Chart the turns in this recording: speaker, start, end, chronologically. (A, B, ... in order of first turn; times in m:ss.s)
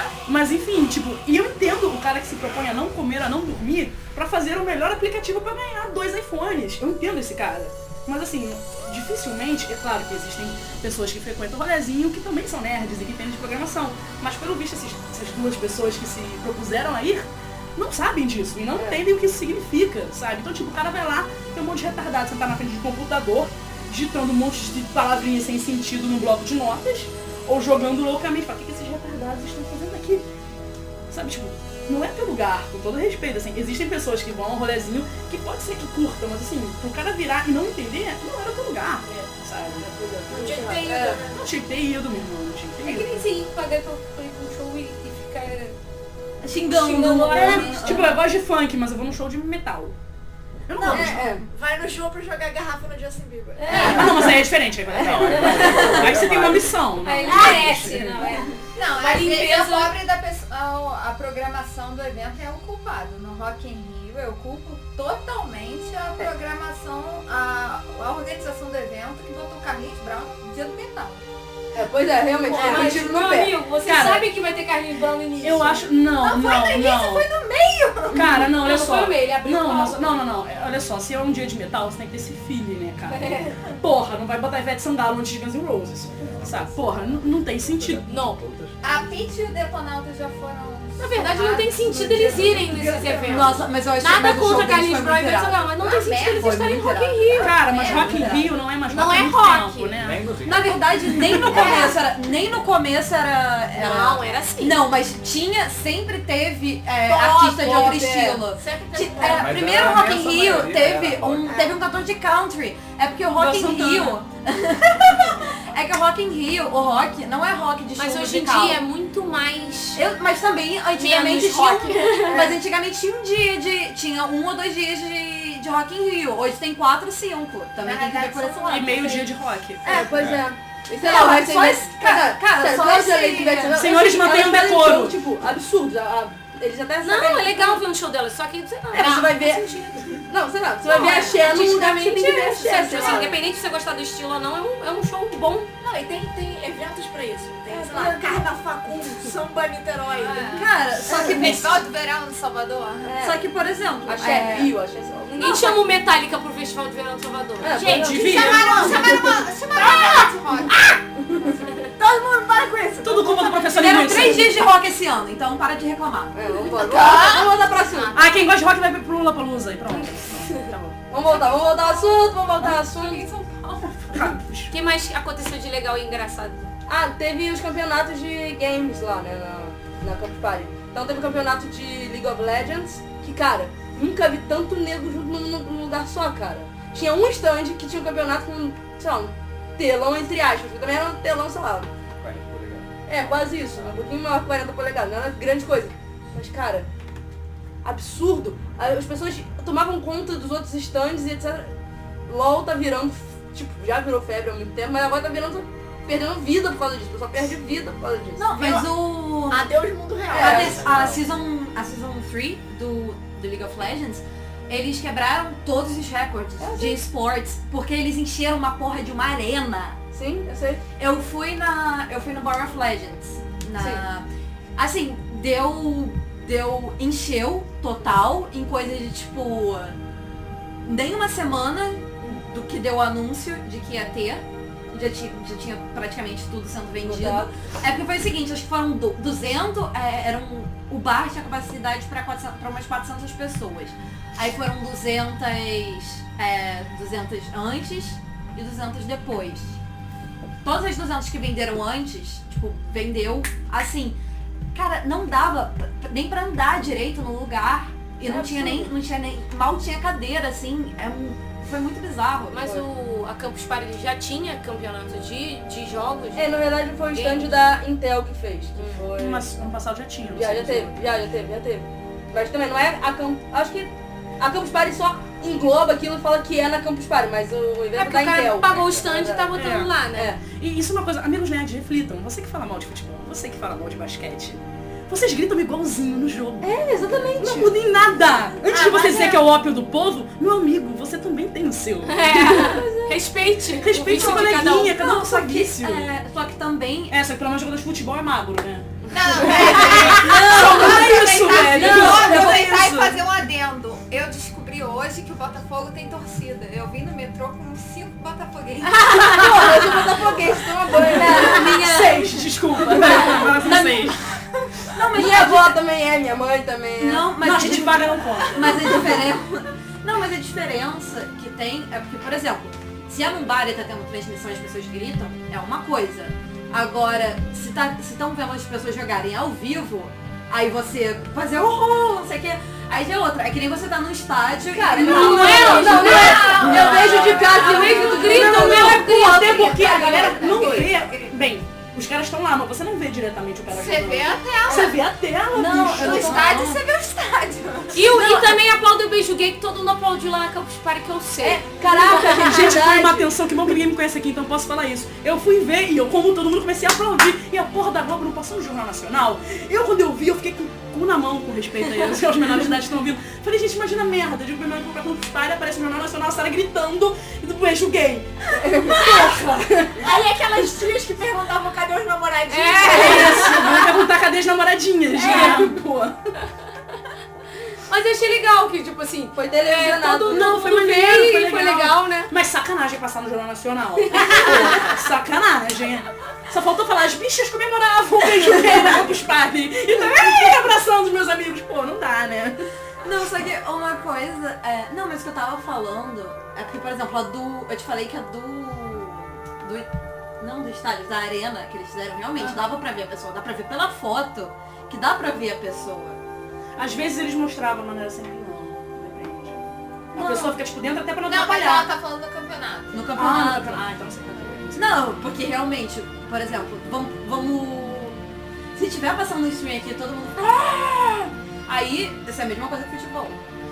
0:00.3-0:30.2 A
0:18.7-0:19.0 B
0:31.1-0:39.8 A
0:39.8-0:41.2 B
0:40.3-0:41.5 C
0:40.6-0:41.1 D
0:41.3-0:43.2 A
0:42.8-0:45.8 D
0:46.4-0:48.2 E
0:46.7-0:47.9 D
0:47.2-0:50.0 A
0:50.7-0:51.2 A
0:50.8-0:51.2 E
0:50.8-0:54.4 C
0:50.9-0:51.4 B
0:53.6-0:54.3 D
0:53.7-0:58.4 A
0:54.9-0:56.8 F
0:55.3-0:55.6 D
0:55.6-0:56.1 E
0:57.0-1:00.0 D
0:58.8-1:11.2 G
1:11.8-1:13.6 B
1:12.5-1:15.9 D
1:12.6-1:13.1 A
1:13.8-1:14.3 A
1:15.4-1:17.3 A
1:16.2-1:18.3 G
1:18.1-1:28.0 A
1:18.4-1:20.1 D
1:23.1-1:23.5 D
1:26.1-1:28.8 F
1:28.1-1:28.4 D
1:28.8-1:33.2 G
1:31.0-1:38.4 D
1:32.1-1:33.5 C
1:33.2-1:38.5 E
1:35.8-1:36.6 G
1:37.4-1:40.3 A
1:37.7-1:38.4 G
1:38.9-1:40.0 D
1:40.0-1:40.8 F
1:40.4-1:58.9 E
1:41.1-1:41.7 A
1:41.4-1:42.0 D
1:43.7-1:44.8 D
1:47.1-1:48.4 B
1:47.2-1:48.0 C
1:48.6-1:49.7 D
1:49.2-1:51.6 F
1:53.4-1:54.2 A
1:58.0-2:00.1 D
2:00.0-2:09.2 E
2:00.9-2:02.6 D
2:07.8-2:08.9 G
2:08.7-2:09.8 A
2:09.8-2:17.8 B
2:09.9-2:10.3 E
2:10.2-2:10.4 F
2:11.0-2:14.0 E
2:13.7-2:15.2 A
2:17.0-2:20.2 D
2:18.9-2:19.6 B
2:20.3-2:23.4 B
2:20.8-2:25.7 D
2:23.0-2:23.2 E
2:25.8-2:30.7 C
2:30.2-2:33.2 G
2:30.6-2:31.8 E
2:33.0-2:33.4 B
2:33.2-2:34.7 E
2:34.1-2:35.9 B
2:35.4-2:38.5 D
2:37.6-2:38.5 B
2:37.8-2:39.0 A
2:38.0-2:40.8 G
2:38.0-2:40.9 C
2:42.0-2:44.2 C
2:43.0-2:44.6 A
2:43.8-2:47.5 E
2:46.3-2:48.1 B
2:46.8-2:48.3 G
2:48.1-2:51.0 A
2:51.1-2:53.3 B
2:51.2-2:52.5 G
2:52.7-2:53.2 D
2:53.0-2:53.9 G
2:53.8-2:54.7 A
2:54.7-2:56.7 D
2:56.9-3:11.9 B
3:12.2-3:14.0 F
3:13.1-3:16.9 B
3:17.8-3:21.7 B
3:22.3-3:28.5 B
3:28.4-3:29.7 E
3:28.6-3:28.8 C
3:29.5-3:30.8 C
3:30.3-3:30.8 B
3:30.3-3:40.0 E
3:30.5-3:31.3 F
3:36.6-3:37.0 B
3:40.1-3:40.8 B
3:41.0-3:44.2 E
3:43.8-3:44.0 B
3:44.8-3:50.0 E
3:50.8-4:09.8 E
3:57.0-3:57.5 B
4:10.6-4:14.2 E
4:14.7-4:22.8 E
4:18.2-4:18.9 B
4:22.5-4:26.6 D
4:26.4-4:29.5 B
4:27.1-4:27.6 D
4:28.8-4:29.1 D
4:29.2-4:31.0 A
4:30.3-4:39.5 B
4:38.0-4:40.4 D
4:39.5-4:46.7 A
4:40.1-4:40.4 B
4:46.7-4:47.7 E
4:47.4-4:52.8 A
4:48.7-4:49.4 E
4:52.0-4:54.9 D
4:52.6-4:53.2 E
4:53.8-4:56.1 A
4:54.1-4:57.2 E
4:57.1-5:03.2 A
4:59.1-5:10.6 G
4:59.6-5:02.7 E
5:01.8-5:02.1 B
5:08.9-5:11.8 B
5:09.4-5:10.0 E
5:11.0-5:14.3 E
5:11.1-5:14.2 A
5:14.9-5:15.8 E
5:15.1-5:17.3 B
5:17.0-5:40.8 E
5:17.4-5:19.0 A
5:34.7-5:40.9 B
5:35.0-5:46.5 A
5:35.0-5:40.4 D
5:36.2-5:37.4 G
5:39.4-5:41.3 G
5:43.7-5:45.0 G
5:45.5-5:46.8 E
5:45.9-5:48.2 G
5:47.9-5:52.7 D
5:51.4-5:53.3 B
5:52.0-6:10.0 A
6:09.0-6:09.4 C
6:10.0-6:13.9 C
6:12.5-6:13.8 D
6:12.9-6:16.3 A
6:13.1-6:13.4 B
6:15.2-6:15.7 D
6:15.3-6:15.6 B
6:15.4-6:15.6 C
6:17.9-6:22.3 D
6:19.3-6:20.6 B
6:20.3-6:32.6 A
6:24.1-6:24.9 D
6:28.4-6:28.8 E
6:33.0-6:46.2 E
6:46.8-6:49.6 A
6:50.1-6:51.9 A
6:50.2-6:50.5 E
6:51.2-6:53.0 G
6:52.9-6:53.8 E
6:53.2-6:55.0 A
6:54.8-6:58.2 E
6:58.7-7:03.4 E